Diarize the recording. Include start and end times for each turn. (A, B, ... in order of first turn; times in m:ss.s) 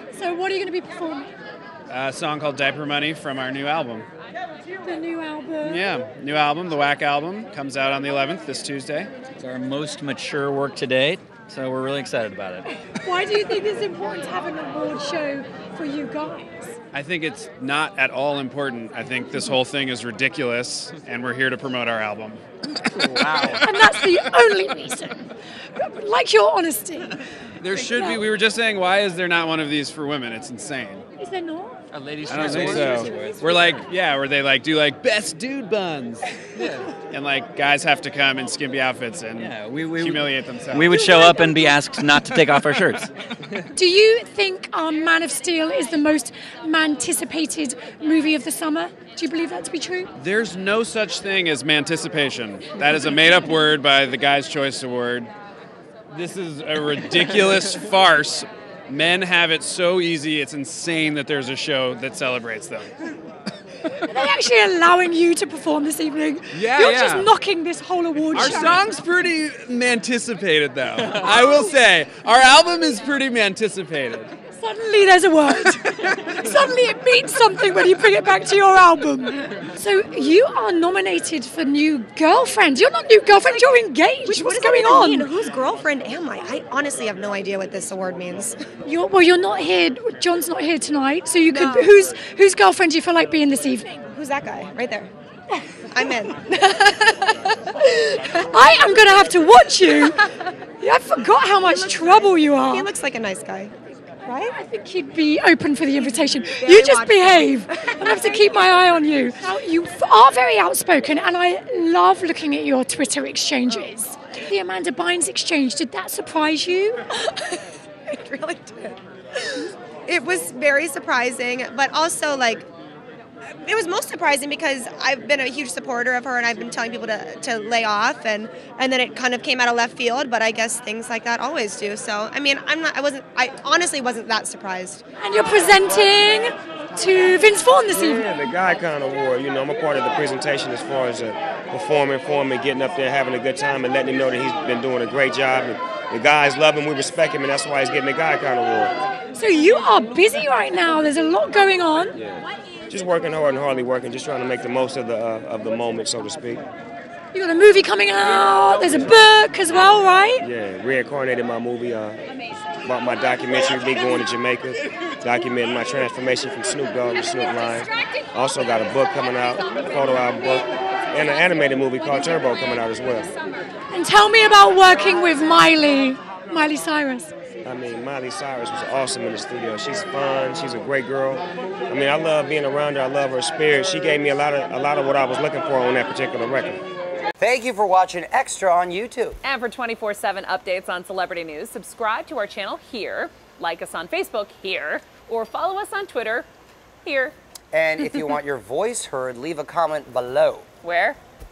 0:00.1-0:01.3 A
0:01.9-0:04.1 B
0:04.8-0:05.9 A
0:05.6-0:09.1 B
0:09.4-0:12.6 C
0:13.0-0:16.8 A
0:16.9-0:22.4 B
0:23.1-0:23.6 C
0:23.5-0:27.2 A
0:27.6-0:31.0 B
0:27.7-0:28.2 A
0:31.2-0:31.8 A
0:31.9-0:33.9 C
0:32.3-0:36.3 B
0:36.6-0:36.8 C
0:37.0-0:41.1 B
0:39.4-0:43.1 C
0:43.7-0:50.1 A
0:50.2-0:55.3 B
0:56.1-1:03.0 B
1:04.0-1:08.8 A
1:06.5-1:07.3 B
1:08.3-1:14.3 B
1:14.6-1:25.3 A
1:23.4-1:28.6 D
1:28.8-1:34.0 A
1:31.5-1:31.9 D
1:34.1-1:35.1 D
1:35.9-1:36.4 D
1:36.5-1:42.9 A
1:41.6-1:44.5 D
1:44.4-1:57.2 A
1:46.0-1:48.8 D
1:57.2-1:59.0 D
1:59.6-2:02.7 D
2:03.6-2:15.0 D
2:15.2-2:18.3 A
2:17.9-2:28.9 E
2:29.3-2:32.2 A
2:32.2-2:36.6 E
2:37.3-2:40.4 A
2:40.4-2:53.3 E
2:53.9-2:57.3 A
2:57.6-3:06.8 E
3:07.4-3:09.4 F
3:09.5-3:16.4 G
3:17.0-3:17.3 G
3:17.7-3:20.6 F
3:20.8-3:21.2 G